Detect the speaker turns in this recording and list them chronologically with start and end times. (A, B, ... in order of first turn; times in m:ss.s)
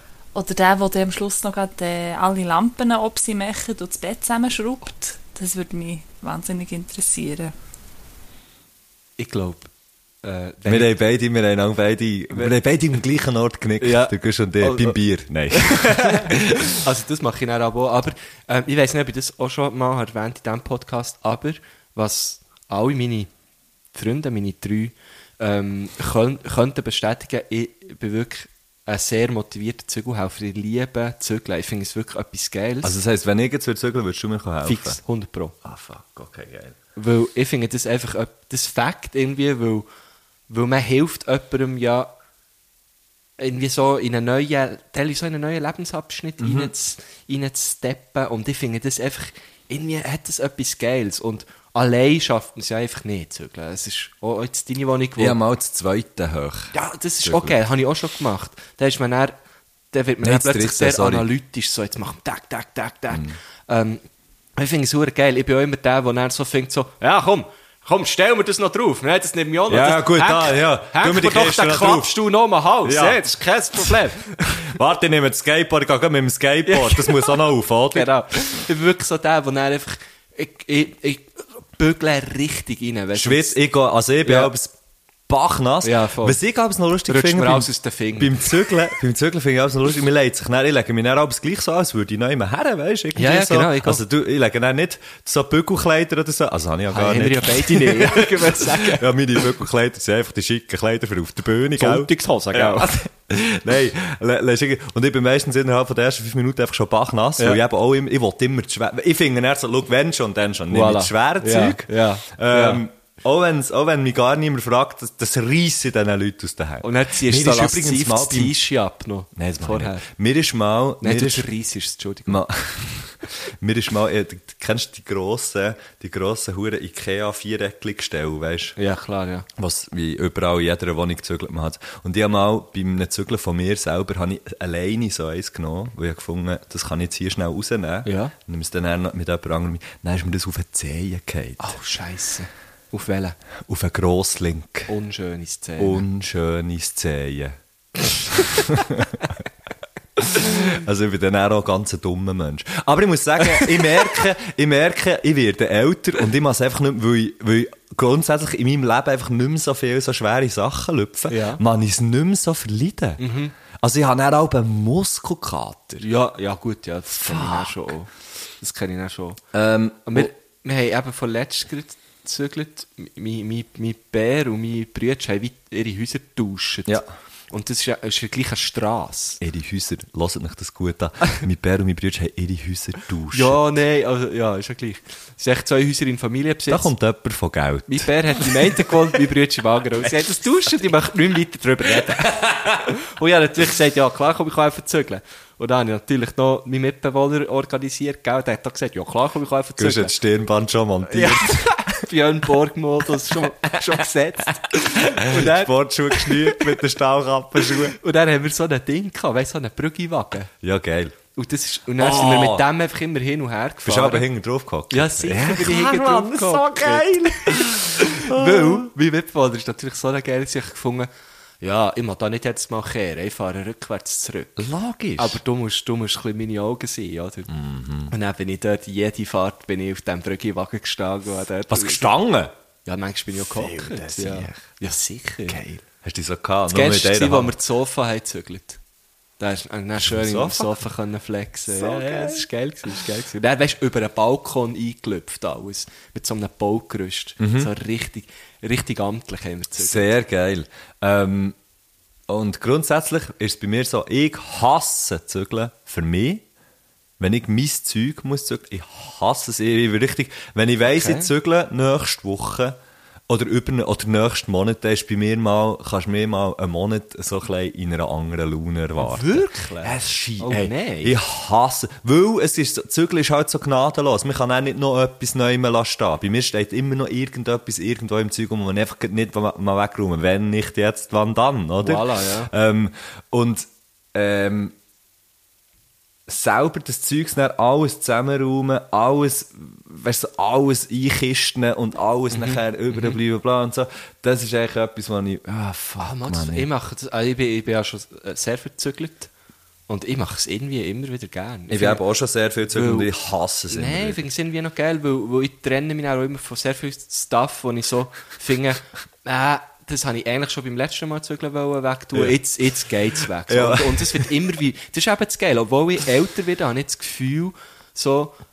0:00.3-0:07.5 A
0:09.2-0:09.7 B
0:10.2-0:11.0 B
0:10.6-0:16.7 C
0:13.8-0:15.0 B
0:15.5-0:23.3 B
0:23.9-0:33.0 B
0:32.8-0:35.0 C
0:34.6-0:35.6 B
0:35.6-0:36.8 C
0:37.0-0:39.9 B
0:40.5-0:42.1 B
0:43.4-0:55.4 B
0:46.4-0:46.7 C
0:55.2-0:57.6 C
0:56.7-0:59.4 B
0:59.9-1:04.0 B
1:00.2-1:01.3 C
1:03.1-1:03.4 C
1:04.6-1:14.6 B
1:09.7-1:12.2 C
1:12.8-1:13.2 C
1:14.6-1:18.1 C
1:16.6-1:17.4 B
1:17.9-1:23.6 B
1:23.1-1:24.7 C
1:24.2-1:24.5 B
1:25.3-1:58.6 C
1:25.8-1:26.4 B
1:27.1-1:28.7 B
1:33.1-1:34.0 B
1:36.9-1:39.1 B
1:41.8-1:42.9 B
1:50.7-1:52.8 B
1:56.8-2:00.1 B
1:59.3-2:01.5 C
2:01.0-2:02.4 B
2:02.3-2:08.8 C
2:08.8-2:09.4 B
2:09.6-2:21.7 C
2:18.0-2:18.3 B
2:21.6-2:23.4 B
2:23.6-2:24.9 C
2:24.9-2:26.0 B
2:25.8-2:27.6 C
2:28.3-2:29.2 C
2:30.2-2:46.0 C
2:33.5-2:33.8 B
2:41.3-2:41.6 B
2:43.2-2:43.5 B
2:46.0-2:49.4 B
2:47.1-2:47.9 C
2:49.5-2:50.3 C
2:50.0-2:57.0 B
2:57.5-2:59.4 B
2:59.4-3:03.6 C
3:03.3-3:06.9 B
3:06.7-3:08.9 C
3:07.9-3:20.1 B
3:12.3-3:12.7 C
3:19.8-3:22.0 C
3:21.1-3:26.7 B
3:25.2-3:28.0 C
3:27.6-3:30.5 B
3:30.6-3:31.2 C
3:31.3-3:34.3 B
3:32.0-3:32.7 C
3:33.8-3:38.9 C
3:34.9-3:41.1 B
3:41.6-3:44.6 B
3:44.6-3:45.4 C
3:45.2-3:47.5 B
3:47.5-3:48.1 C
3:48.1-3:52.1 B
3:51.7-3:52.5 C
3:52.8-3:55.6 B
3:53.3-3:54.7 C
3:55.5-3:57.6 C
3:56.7-3:58.8 B
3:59.4-4:10.1 B
4:00.0-4:00.8 C
4:01.7-4:03.0 C
4:07.4-4:07.7 C
4:09.8-4:11.6 C
4:12.3-4:16.4 C
4:17.2-4:22.8 C
4:20.8-4:21.3 B
4:23.3-4:44.7 C
4:29.0-4:31.2 B
4:41.8-4:42.5 B
4:46.3-4:56.7 C
4:52.3-4:53.2 B
4:56.0-4:59.3 B
4:59.9-5:02.0 B
5:01.7-5:04.2 C
5:02.7-5:03.1 B
5:03.7-5:18.4 B
5:13.5-5:14.3 C